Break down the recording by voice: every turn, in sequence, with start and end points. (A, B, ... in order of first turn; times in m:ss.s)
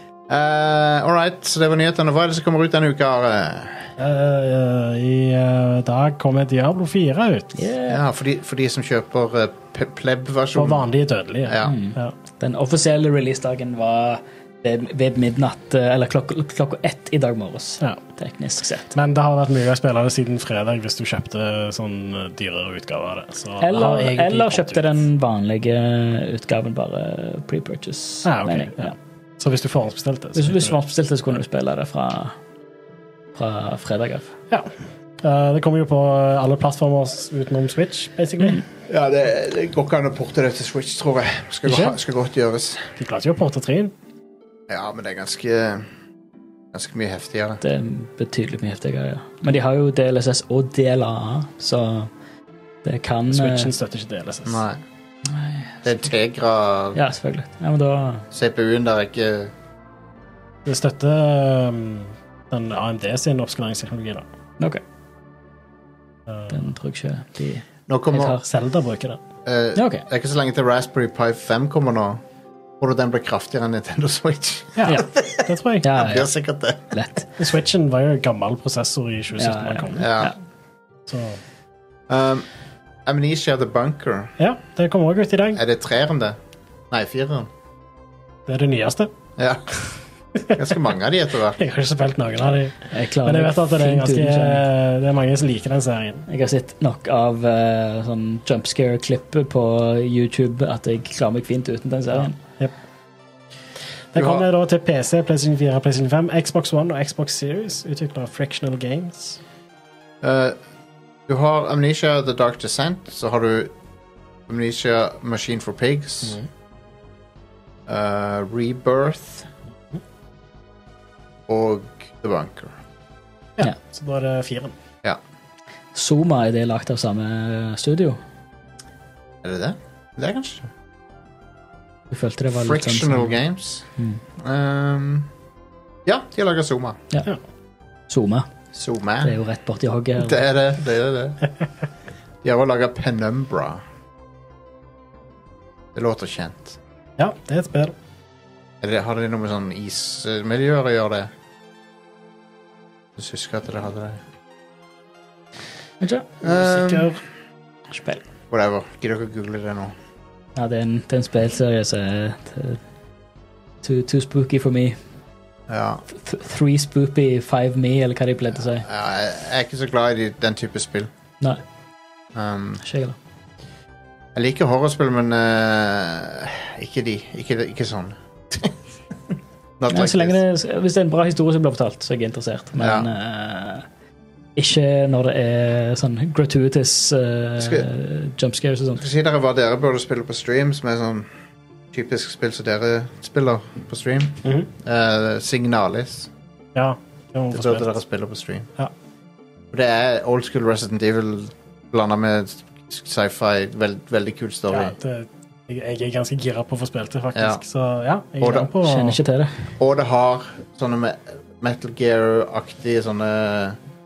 0:00.3-0:03.9 A
0:04.0-0:07.6 B
0:07.5-0:08.0 C
0:07.9-0:10.9 A
0:10.5-0:12.1 B
0:11.4-0:11.8 A
0:11.6-0:18.9 C
0:18.9-0:25.0 B
0:23.6-0:28.9 C
0:28.2-0:30.8 B
0:30.3-0:32.3 C
0:33.3-0:34.3 C
0:35.2-0:38.6 B
0:38.9-0:42.9 A
0:41.7-0:41.9 B
0:43.0-0:43.9 B
0:44.7-0:45.9 A
0:46.7-0:47.6 A
0:47.6-0:52.1 C
0:52.8-0:53.7 C
0:53.3-0:54.6 B
0:54.4-0:54.8 A
0:55.3-0:55.8 C
0:55.8-0:57.0 A
0:56.9-0:58.2 C
0:58.3-0:59.5 A
1:00.6-1:04.2 B
1:06.3-1:06.6 B
1:06.5-1:08.4 C
1:07.9-1:08.4 A
1:08.3-1:09.2 B
1:09.4-1:12.2 A
1:09.7-1:10.0 C
1:12.8-1:16.9 A
1:14.8-1:15.9 B
1:15.8-1:16.3 C
1:16.9-1:17.3 C
1:17.4-1:20.1 B
1:19.4-1:20.3 C
1:20.0-1:20.3 A
1:21.1-1:21.4 B
1:22.1-1:22.4 A
1:23.0-1:24.3 A
1:24.4-1:25.6 B
1:25.5-1:26.4 A
1:26.9-1:27.5 A
1:28.5-1:29.1 B
1:29.4-1:29.6 A
1:30.5-1:31.6 A
1:31.6-1:36.2 B
1:32.9-1:34.6 C
1:36.3-1:42.4 C
1:42.2-1:42.7 B
1:44.1-1:49.4 B
1:44.1-1:44.4 A
1:50.2-1:50.6 A
1:51.3-1:53.7 A
1:54.5-1:56.4 A
1:57.9-1:59.5 A
2:01.5-2:02.7 A
2:03.6-2:04.7 B
2:05.9-2:08.2 C
2:09.4-2:10.7 A
2:12.1-2:13.4 C
2:12.5-2:15.3 A
2:16.0-2:17.0 A
2:18.1-2:18.5 C
2:18.7-2:19.3 A
2:19.2-2:20.4 C
2:20.2-2:21.4 A
2:22.4-2:23.8 A
2:25.9-2:26.8 A
2:27.2-2:27.9 B
2:28.8-2:31.3 A
2:33.2-2:34.2 A
2:36.0-2:36.3 C
2:36.4-2:37.2 A
2:36.4-2:37.1 B
2:37.9-2:38.2 C
2:38.5-2:39.9 A
2:40.6-2:42.8 C
2:43.8-2:45.0 C
2:45.7-2:46.0 A
2:46.1-2:48.8 C
2:48.7-2:51.1 A
2:52.3-2:52.8 A
2:52.8-2:53.2 C
2:54.3-2:58.8 A
2:59.8-3:00.4 A
2:59.9-3:03.8 C
3:02.8-3:03.1 A
3:04.6-3:09.0 C
3:07.6-3:07.9 A
3:09.0-3:11.3 A
3:11.9-3:16.3 A
3:14.4-3:14.7 B
3:16.7-3:17.9 B
3:17.5-3:18.7 A
3:19.7-3:25.0 A
3:24.7-3:29.2 B
3:27.3-3:27.6 A
3:28.4-3:28.7 A
3:28.8-3:29.5 C
3:29.8-3:33.8 A